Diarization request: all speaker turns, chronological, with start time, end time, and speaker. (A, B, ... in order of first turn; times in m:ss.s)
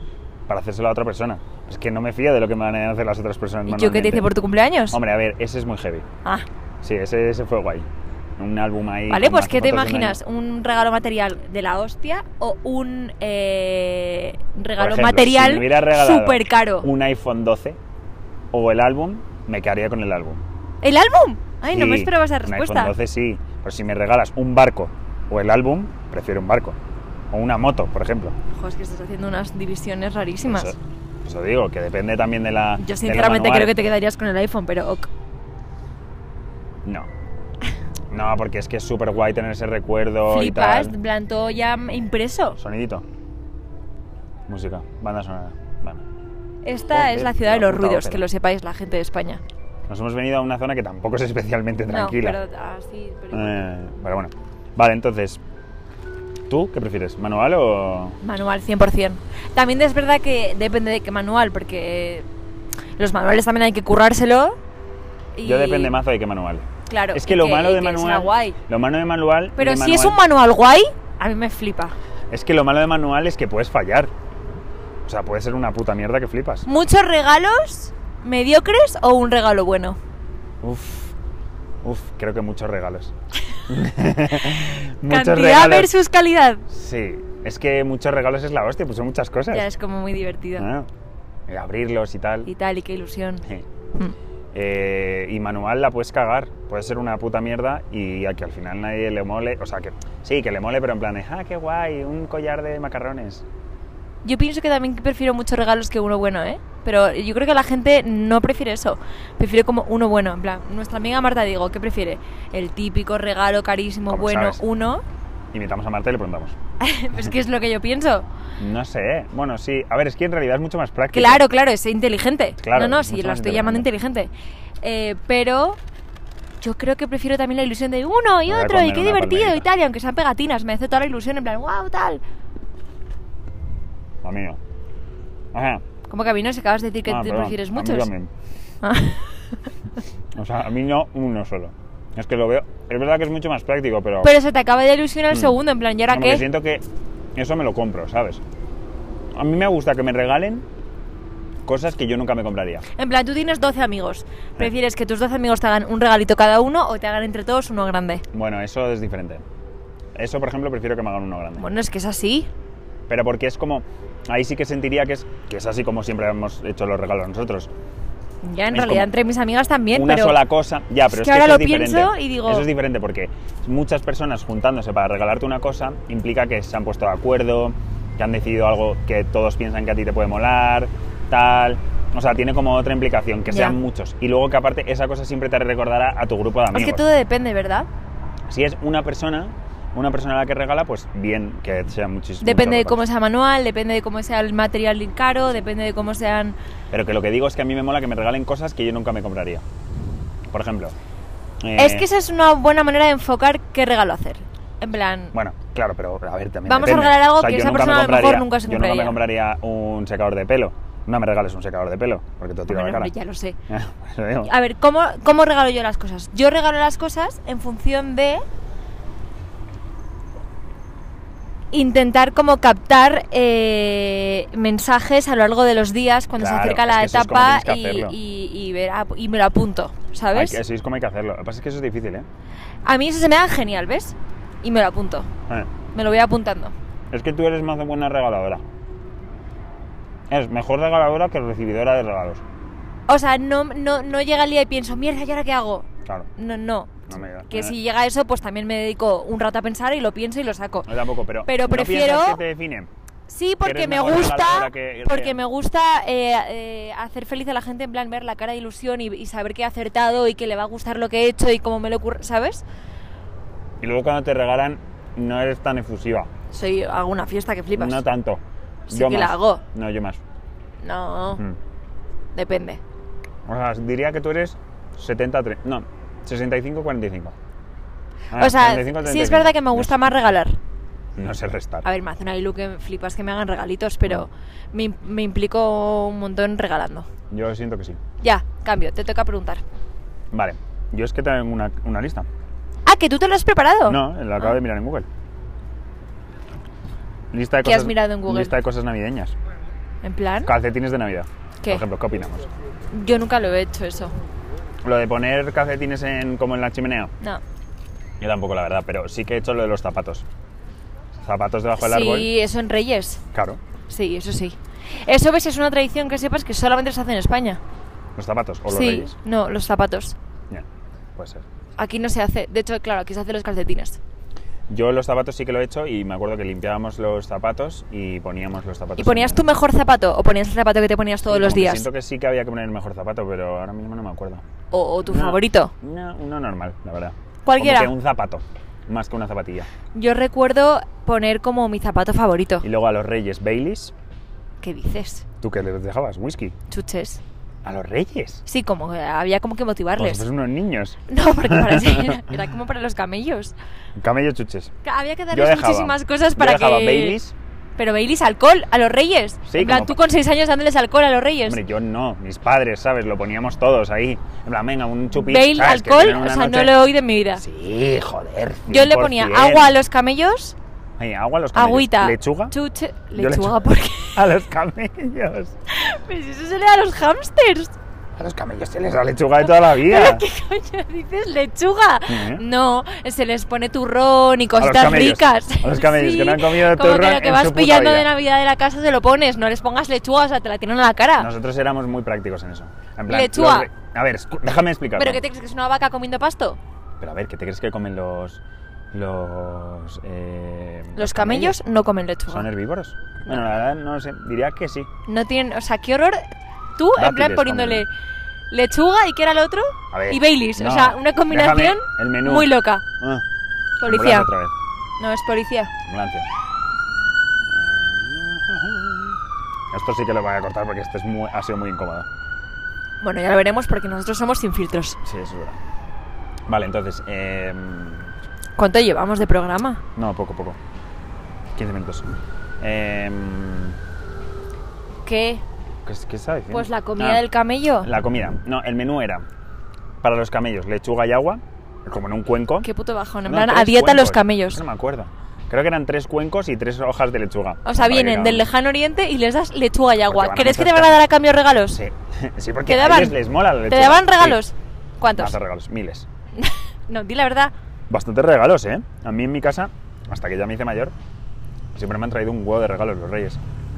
0:00.5-0:04.3 A
0:03.7-0:05.0 B
0:04.9-0:06.0 A
0:06.8-0:07.9 A
0:08.4-0:10.2 A
0:09.1-0:16.9 B
0:14.8-0:17.8 A
0:18.5-0:20.4 A
0:20.8-0:22.9 B
0:21.7-0:26.8 A
0:27.3-0:28.3 A
0:28.5-0:30.8 B
0:30.4-0:33.7 A
0:32.8-0:35.1 B
0:38.1-0:40.9 A
0:40.2-0:42.6 B
0:42.6-0:43.0 A
0:44.5-0:46.0 A
0:46.6-0:49.4 B
0:46.9-0:48.3 A
0:49.9-0:52.4 A
0:51.9-0:53.7 B
0:53.3-0:55.4 A
0:56.5-0:58.2 A
0:58.2-1:02.2 B
1:03.0-1:04.6 B
1:05.3-1:06.0 B
1:05.4-1:10.2 A
1:06.9-1:08.6 B
1:09.6-1:11.9 B
1:12.3-1:14.1 A
1:15.0-1:16.6 A
1:16.6-1:20.0 B
1:20.6-1:21.1 A
1:21.8-1:23.1 A
1:23.7-1:25.9 A
1:25.1-1:26.6 B
1:26.7-1:29.7 A
1:29.5-1:30.7 B
1:30.6-1:30.9 A
1:31.5-1:32.5 A
1:32.4-1:33.4 B
1:34.5-1:43.4 A
1:44.2-1:55.0 B
1:54.1-1:54.6 A
1:55.5-1:56.6 A
1:56.8-1:58.3 B
1:58.6-2:01.4 A
2:01.1-2:05.8 B
2:02.6-2:03.9 A
2:06.6-2:12.2 B
2:08.5-2:09.7 A
2:14.2-2:14.6 A
2:15.5-2:15.8 A
2:16.1-2:18.1 B
2:17.1-2:18.3 A
2:18.8-2:19.7 B
2:20.4-2:24.3 A
2:24.2-2:26.4 B
2:25.3-2:25.6 A
2:26.1-2:26.8 A
2:27.4-2:28.4 A
2:29.3-2:30.6 A
2:31.6-2:32.8 A
2:32.9-2:38.2 B
2:38.3-2:39.4 A
2:40.1-2:41.7 A
2:41.6-2:42.5 B
2:43.1-2:47.7 A
2:48.4-2:50.4 B
2:48.7-2:49.1 A
2:49.9-3:07.0 A
2:51.1-2:52.7 B
3:03.5-3:03.8 B
3:06.7-3:07.9 B
3:08.5-3:13.0 A
3:12.4-3:16.6 B
3:16.9-3:19.6 A
3:20.5-3:21.0 A
3:21.6-3:22.1 A
3:21.8-3:25.3 B
3:25.3-3:33.1 A
3:26.7-3:29.2 B
3:32.7-3:33.6 B
3:33.7-3:34.5 A
3:34.4-3:38.4 B
3:41.7-3:50.6 B
3:46.4-3:48.2 A
3:50.3-3:52.3 A
3:52.8-3:55.3 B
3:55.9-3:56.7 B
3:57.1-3:58.6 A
4:00.3-4:02.4 A
4:03.1-4:10.9 B
4:07.1-4:07.8 A
4:10.8-4:12.9 A
4:11.4-4:12.4 B
4:13.3-4:22.6 B
4:13.6-4:15.4 A
4:23.8-4:26.3 A
4:26.5-4:28.0 B
4:27.7-4:30.2 A
4:28.9-4:29.6 B
4:30.8-4:31.4 B
4:32.3-4:32.8 B
4:33.5-4:37.4 A
4:38.3-4:40.0 A
4:38.3-4:40.6 B
4:41.2-4:41.8 A
4:41.8-4:47.1 B
4:47.3-4:48.0 A
4:48.2-4:49.6 B
4:50.3-4:52.3 A
4:52.8-4:54.5 B
4:53.8-4:55.0 A
4:57.3-4:59.3 A
4:57.6-4:58.6 B
5:00.0-5:00.5 B
5:00.4-5:02.5 A
5:02.9-5:04.1 B
5:04.8-5:07.1 A
5:08.2-5:10.2 A
5:11.2-5:12.3 A
5:11.8-5:13.2 B
5:13.3-5:13.6 A
5:13.9-5:17.6 B
5:18.2-5:19.1 A
5:18.7-5:20.2 B
5:21.2-5:21.4 A
5:21.8-5:24.0 B
5:24.7-5:29.5 A
5:29.0-5:31.9 B
5:31.3-5:34.4 A
5:34.7-5:35.7 B
5:35.0-5:39.7 A
5:37.4-5:37.9 B
5:39.9-5:42.6 B
5:42.6-5:43.9 A
5:44.6-5:45.2 B
5:45.4-5:46.6 A
5:46.7-5:47.2 B
5:47.6-5:48.4 A
5:48.4-5:50.2 B
5:50.0-5:52.2 A
5:51.1-5:53.5 B
5:54.0-5:54.7 A
5:54.8-5:57.2 B
5:55.3-5:57.3 A
5:57.8-6:01.6 B
5:59.5-6:00.0 A
6:01.4-6:06.8 A
6:05.1-6:07.4 B
6:07.4-6:09.7 A
6:08.7-6:10.6 B
6:11.0-6:12.5 A
6:11.5-6:14.2 B
6:13.1-6:13.6 A
6:14.1-6:15.5 A
6:15.7-6:17.7 B
6:18.2-6:20.2 A
6:19.4-6:31.3 B
6:22.1-6:22.4 A
6:24.6-6:28.1 A
6:31.2-6:35.2 A
6:33.1-6:33.7 B
6:35.0-6:36.6 B
6:37.0-6:38.4 A
6:38.9-6:41.6 A
6:41.0-6:42.5 B
6:42.3-6:44.9 A
6:45.1-6:46.2 B
6:46.8-6:47.9 B
6:47.0-6:47.8 A
6:48.5-6:52.8 B
6:49.9-6:53.2 A
6:53.8-6:54.3 B
6:53.8-6:54.5 A
6:55.0-6:55.7 B
6:55.8-6:56.3 A
6:57.5-6:59.2 A
6:59.7-7:02.1 A
7:03.0-7:05.0 B
7:05.0-7:05.6 A
7:06.5-7:08.1 A
7:08.6-7:09.8 B
7:10.0-7:10.6 A
7:11.6-7:12.1 A
7:12.6-7:13.8 A
7:15.0-7:15.4 B
7:15.8-7:17.2 A
7:16.5-7:17.9 B
7:17.8-7:19.2 A
7:20.0-7:22.7 A
7:22.6-7:24.6 B
7:23.3-7:28.5 A
7:27.6-7:31.8 B
7:30.1-7:31.0 A
7:31.7-7:34.4 A
7:32.7-7:35.4 B
7:35.2-7:36.1 A
7:36.4-7:37.5 B
7:37.9-7:40.9 A
7:41.7-7:43.4 A